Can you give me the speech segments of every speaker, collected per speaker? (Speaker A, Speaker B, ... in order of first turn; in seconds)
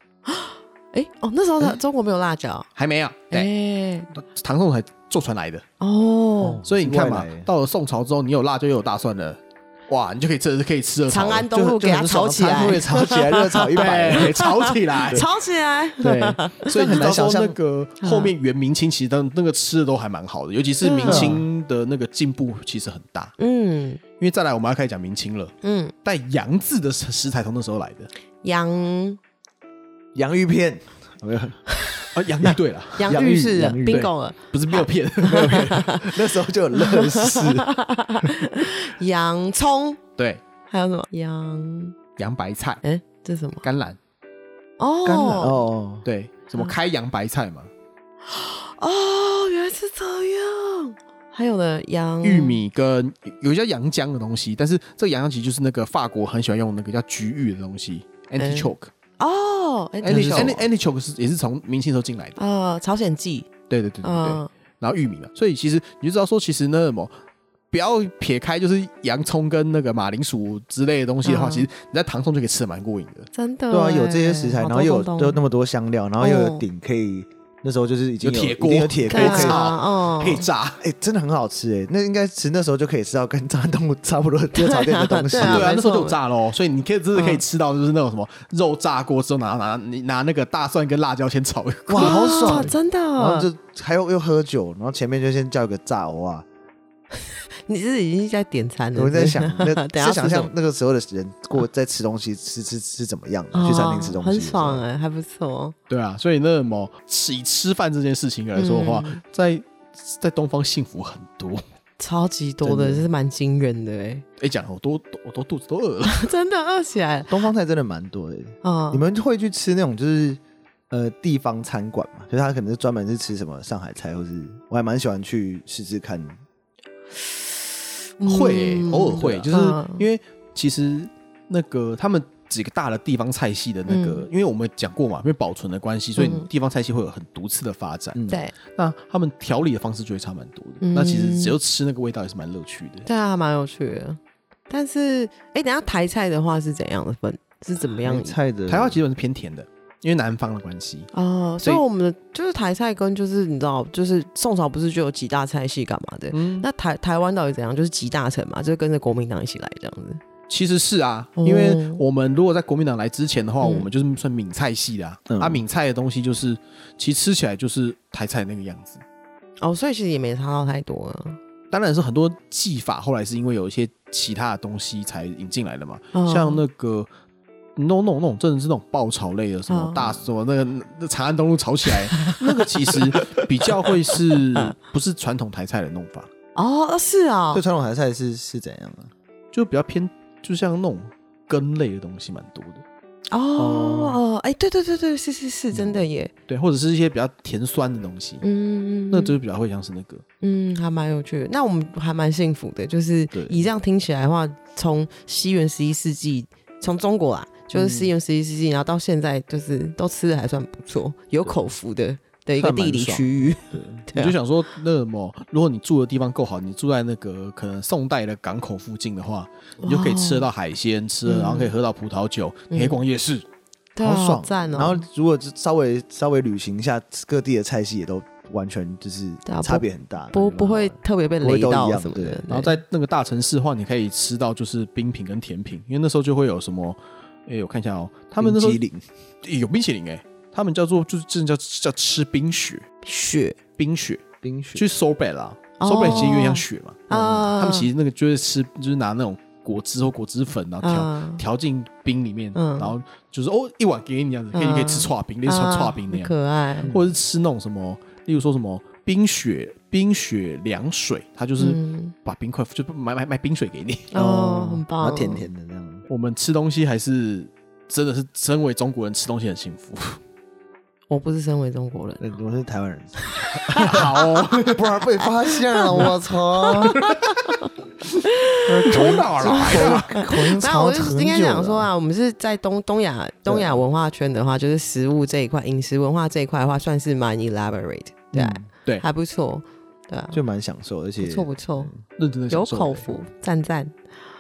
Speaker A: 0.3-2.7, 3.3-4.1, 5.8-6.6, 11.1-17.1, 18.0-18.3, 20.8-21.4, 23.4-24.0, 25.6-25.9, 28.4-29.2, 33.0-36.2, 36.7-40.0, 40.7-42.0, 42.8-43.6, 44.8-45.6, 48.3-52.6, 58.4-60.6, 62.4-63.5, 64.0-64.5, 71.2-71.7, 73.3-75.4, 76.2-76.6, 79.1-80.5, 84.5-86.2, 87.1-87.4, 92.0-93.5, 97.2-100.5, 103.5-105.7, 108.5-109.2, 112.0-114.2, 116.0-117.5, 118.6-119.0, 128.2-130.1, 133.9-134.3, 136.2-136.5, 138.3-138.6, 140.8-141.6, 143.1-148.3, 151.1-160.2, 161.4-162.0, 163.6-163.9, 169.6-171.4, 176.1-176.6, 179.7-180.2, 186.6-187.6, 193.3-196.3, 198.4-199.3, 200.4-214.4, 219.8-220.5, 221.3-221.7, 222.7-223.0, 223.9-225.1, 229.4-232.8, 243.0-243.6, 245.8-247.9, 250.8-251.4, 252.6-252.9, 254.5-256.9, 261.6-262.1, 264.1-265.4, 271.1-272.3, 273.2-274.3, 275.5-290.4, 291.2-291.9, 292.5-294.0
Speaker B: 2.8-3.5, 4.1-5.6, 6.7-11.5, 13.7-15.3, 16.0-23.4, 24.2-28.1, 32.1-33.1, 33.9-35.8, 42.2-42.8, 43.6-44.0, 46.0-47.7, 52.2-58.9, 60.0-62.4, 63.7-67.1, 67.7-73.3, 78.2-80.8, 85.4-92.7, 105.9-111.6, 114.4-116.3, 128.2-143.1, 148.7-151.1, 156.3-156.7, 160.5-169.0, 171.7-177.1, 177.8-186.3, 189.5-192.8, 196.5-198.4, 199.1-200.2, 214.1-223.4, 232.5-238.8, 239.4-242.8, 243.8-244.2, 244.7-256.3, 256.8-264.1, 266.1-270.2, 273.8-274.8, 278.7-280.2, 292.2-293.1
Speaker C: 6.4-7.5, 11.5-14.4, 16.8-17.6, 21.1-21.4, 30.1-31.6, 32.4-34.1, 35.2-37.7, 45.0-46.1, 60.0-60.7, 73.7-79.7, 80.8-85.8, 91.9-96.5, 98.9-104.8, 112.6-113.1, 117.3-126.4, 129.2-129.5, 138.1-138.4, 148.0-149.0, 165.3-165.6, 187.5-189.1, 193.6-194.2, 203.3-203.7, 207.7-208.1, 212.6-214.1, 224.0-232.4, 238.4-239.0, 244.4-244.8, 264.1-266.1, 272.2-277.0, 278.9-281.9, 283.4-283.8, 288.3-288.7, 290.3-292.0